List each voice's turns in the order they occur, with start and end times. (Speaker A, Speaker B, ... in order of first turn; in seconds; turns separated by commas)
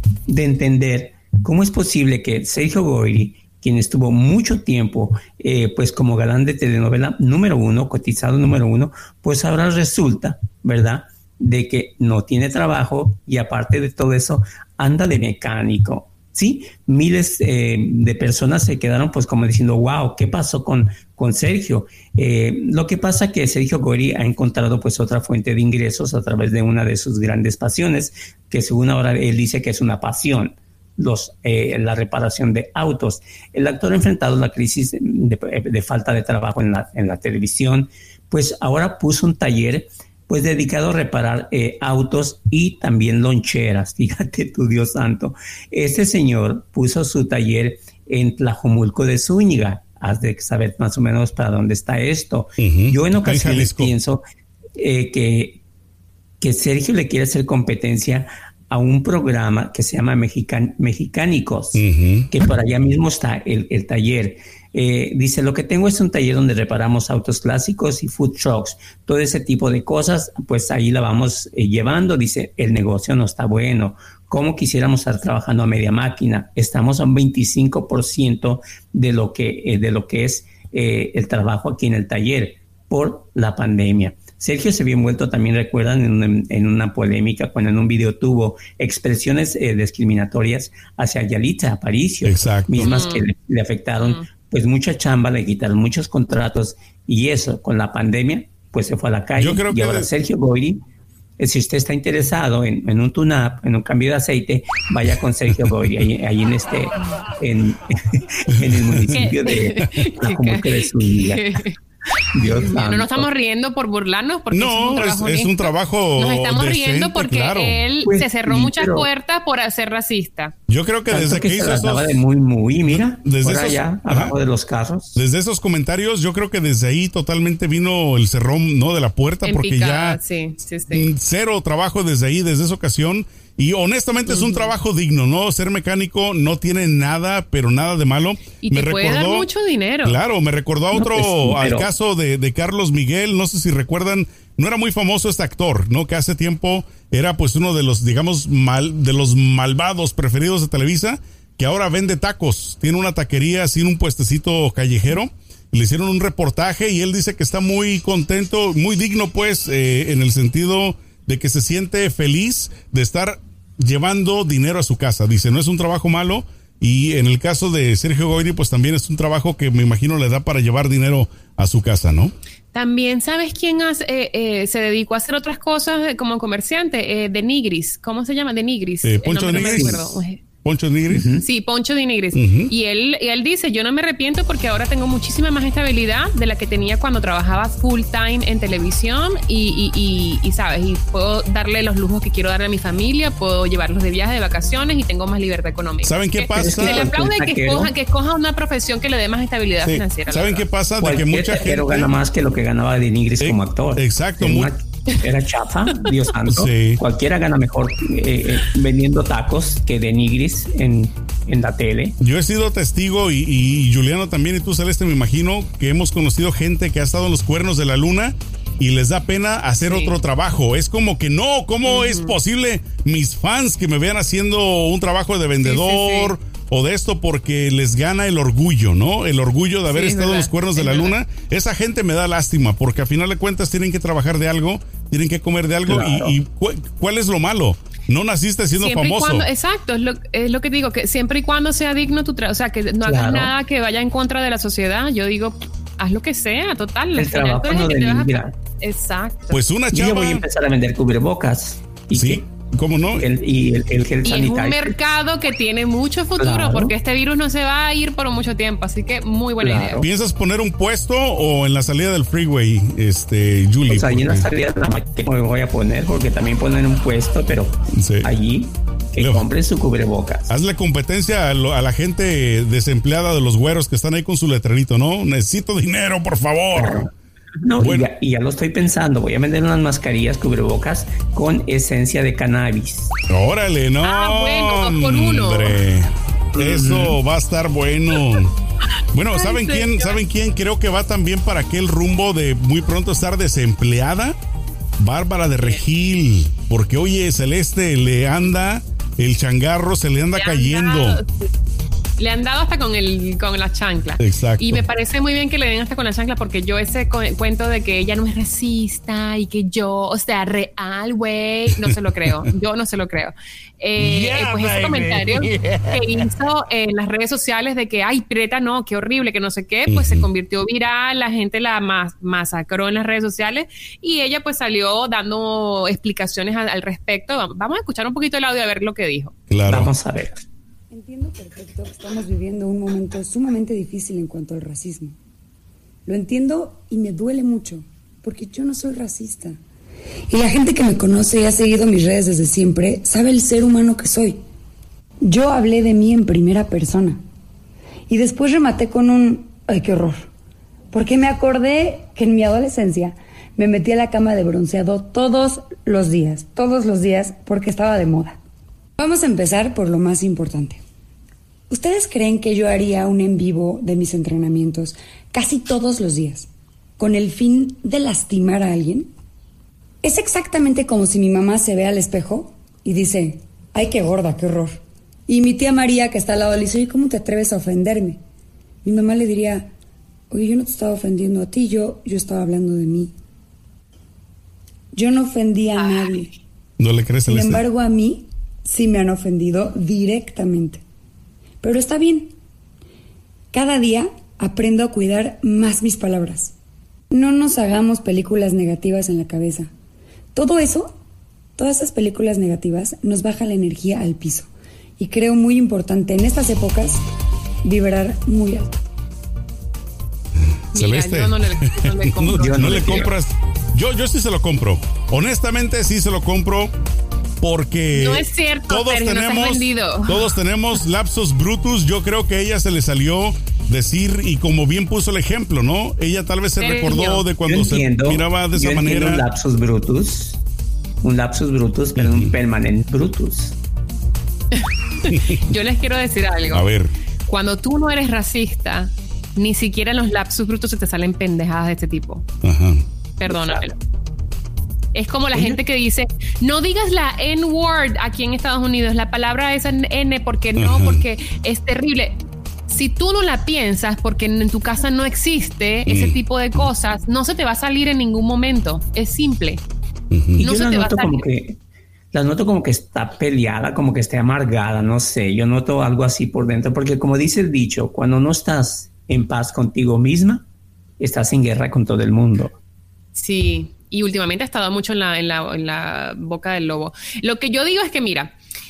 Speaker A: 0.3-54.2, Speaker B: 52.6-53.9, Speaker A: 54.8-55.6, Speaker A: 56.4-100.8, Speaker B: 61.7-62.3, Speaker B: 92.2-92.9, Speaker C: 92.8-93.2, Speaker B: 99.4-100.1, Speaker A: 101.4-111.6, Speaker B: 108.5-109.1, Speaker C: 109.1-111.7, Speaker A: 112.3-113.3, Speaker C: 112.5-120.5, Speaker B: 114.5-117.8, Speaker A: 118.0-119.1, Speaker B: 120.7-122.2, Speaker A: 121.1-125.2, Speaker B: 122.9-124.3, Speaker B: 125.1-130.2, Speaker C: 129.4-131.1, Speaker B: 130.9-139.4, Speaker C: 134.3-134.7, Speaker C: 138.6-140.2, Speaker B: 140.0-172.3, Speaker A: 140.9-141.9, Speaker C: 172.7-180.4, Speaker B: 179.0-181.2, Speaker A: 179.6-179.9, Speaker A: 181.1-181.4, Speaker C: 181.4-200.6, Speaker B: 182.3-182.7, Speaker B: 196.0-197.0, Speaker A: 196.6-197.9, Speaker B: 199.8-202.1, Speaker A: 201.0-212.2, Speaker B: 203.4-204.7, Speaker B: 206.5-207.0, Speaker B: 212.2-239.5, Speaker C: 219.9-220.1, Speaker C: 221.9-222.4, Speaker C: 225.6-226.3, Speaker C: 229.9-231.2, Speaker A: 235.8-236.3, Speaker C: 238.8-249.6, Speaker A: 243.0-243.5, Speaker A: 247.2-248.5, Speaker B: 249.5-250.4, Speaker A: 249.9-252.4, Speaker B: 252.1-253.3, Speaker A: 253.1-255.0, Speaker C: 254.2-260.0, Speaker A: 256.4-256.9, Speaker A: 259.6-260.1, Speaker B: 260.0-264.5, Speaker A: 263.9-270.5, Speaker B: 267.9-268.3, Speaker B: 269.2-269.4, Speaker B: 270.5-277.1, Speaker A: 276.7-277.1, Speaker A: 277.6-283.1, Speaker B: 277.8-278.1, Speaker B: 283.3-288.5, Speaker C: 284.0-285.8, Speaker A: 286.6-287.1, Speaker B: 289.1-294.4, Speaker C: 289.3-290.2, Speaker B: 295.0-301.2, Speaker C: 300.4-301.5, Speaker C: 302.2-329.3, Speaker B: 304.2-304.8, Speaker B: 319.9-320.3, Speaker B: 329.5-329.9, Speaker A: 329.7-330.4, Speaker D: 330.9-335.1, Speaker D: 336.1-339.6, Speaker D: 340.3-344.4, Speaker D: 345.2-347.2, Speaker D: 348.1-350.3, Speaker D: 350.9-358.4, Speaker D: 359.0-360.8, Speaker D: 361.7-369.1, Speaker D: 370.0-378.2, Speaker D: 378.8-379.7, Speaker D: 380.3-383.1, Speaker D: 384.9-386.3, Speaker C: 385.8-386.3, Speaker B: 386.8-387.6, Speaker D: 387.3-390.8, Speaker D: 391.6-392.3, Speaker D: 393.5-396.5, Speaker D: 397.1-399.7, Speaker D: 400.3-400.9, Speaker D: 401.6-407.0, Speaker D: 407.6-408.8, Speaker B: 410.7-416.7, Speaker C: 410.7-413.1, Speaker A: 412.4-413.1, Speaker B: 417.4-429.2, Speaker C: 417.9-420.3, Speaker C: 426.6-427.2, Speaker A: 427.5-430.4, Speaker A: 431.0-433.6, Speaker B: 431.9-432.3, Speaker C: 434.5-436.7, Speaker B: 435.1-435.4, Speaker B: 436.5-436.9, Speaker C: 437.3-442.2, Speaker B: 442.4-442.8, Speaker C: 443.2-443.7, Speaker A: 443.3-443.6, Speaker C: 444.9-452.2, Speaker B: 450.6-451.0, Speaker C: 452.7-459.6, Speaker B: 455.9-456.2, Speaker B: 460.1-460.4, Speaker A: 460.4-461.6, Speaker C: 460.4-461.2, Speaker A: 462.1-470.4, Speaker A: 471.0-472.5, Speaker C: 473.1-478.3